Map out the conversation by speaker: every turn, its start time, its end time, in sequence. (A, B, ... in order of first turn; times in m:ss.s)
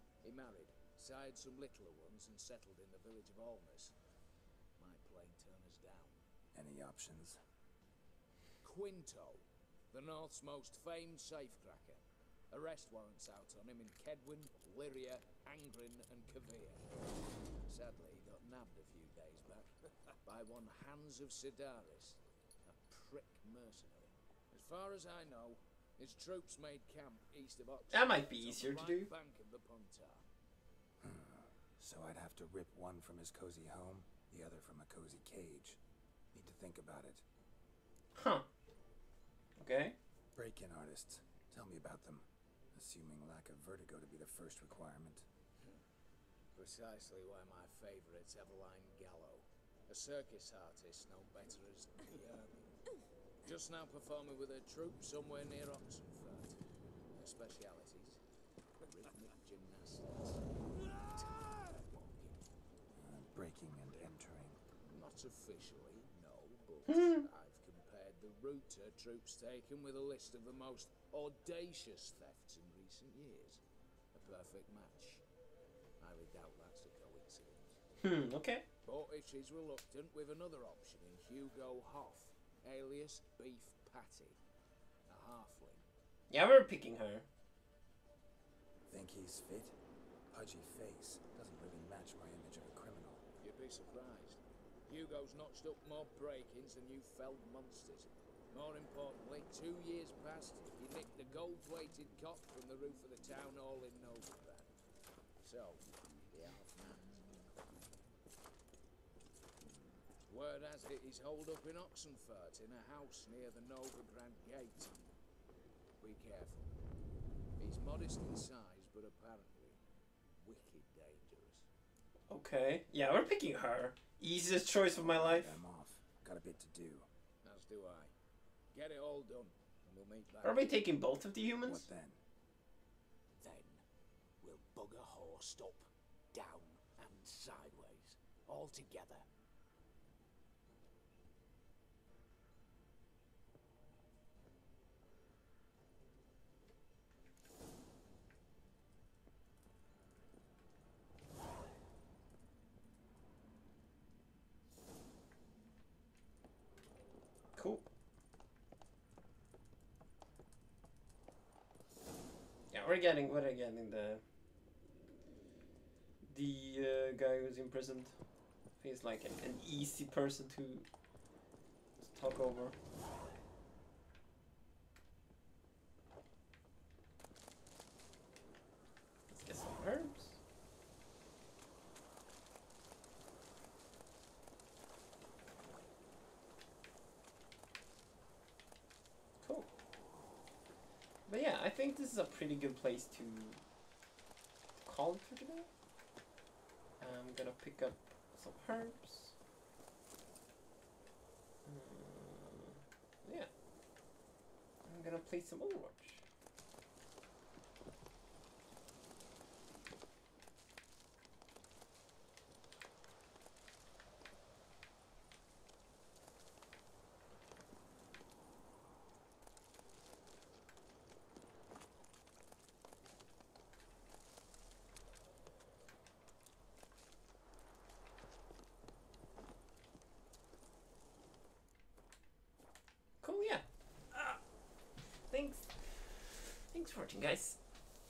0:00.2-0:04.0 A
0:04.8-0:06.3 A
0:06.5-0:07.4 B
0:08.6-0:16.9 A
0:17.6-0:19.7 A
0:20.2-0:30.2 A
0:27.9-0:29.1 C
0:31.0-0:35.8 B
0:36.3-0:37.2 B
0:38.1-0:38.5 C
0:39.6-0:40.0 C
0:40.3-0:45.3 B
0:46.6-0:52.8 A
0:53.4-0:56.6 A
0:57.1-0:58.2 A
0:58.8-1:02.5 A
1:02.9-1:04.6 B
1:04.8-1:15.2 A
1:06.9-1:07.2 C
1:16.0-1:17.9 A
1:18.0-1:18.6 C
1:18.8-1:24.4 A
1:25.1-1:25.9 A
1:26.3-1:27.3 C
1:28.9-1:29.8 B
1:30.3-1:33.2 B
1:33.4-1:44.7 A
1:45.4-1:47.4 A
1:50.3-1:55.2 A
1:56.0-1:56.7 A
1:57.6-1:59.8 A
2:00.4-2:01.7 A
2:02.3-2:05.6 C
2:04.9-2:07.1 B
2:07.4-2:08.1 A
2:08.7-2:10.8 A
2:10.4-2:11.8 C
2:11.6-2:12.2 B
2:13.3-2:13.8 A
2:14.4-2:19.3 A
2:37.6-2:37.8 C
2:42.7-2:44.2 C
2:46.2-2:48.2 C
2:48.8-2:50.9 C
2:52.0-2:52.8 C
2:59.3-3:00.4 C
3:09.4-3:09.7 C
3:11.3-3:13.6 C
3:14.8-3:15.7 C
3:17.0-3:19.3 C
3:21.6-3:23.5 C
3:24.9-3:26.2 C
3:53.2-3:54.4 C
3:55.3-3:57.6 C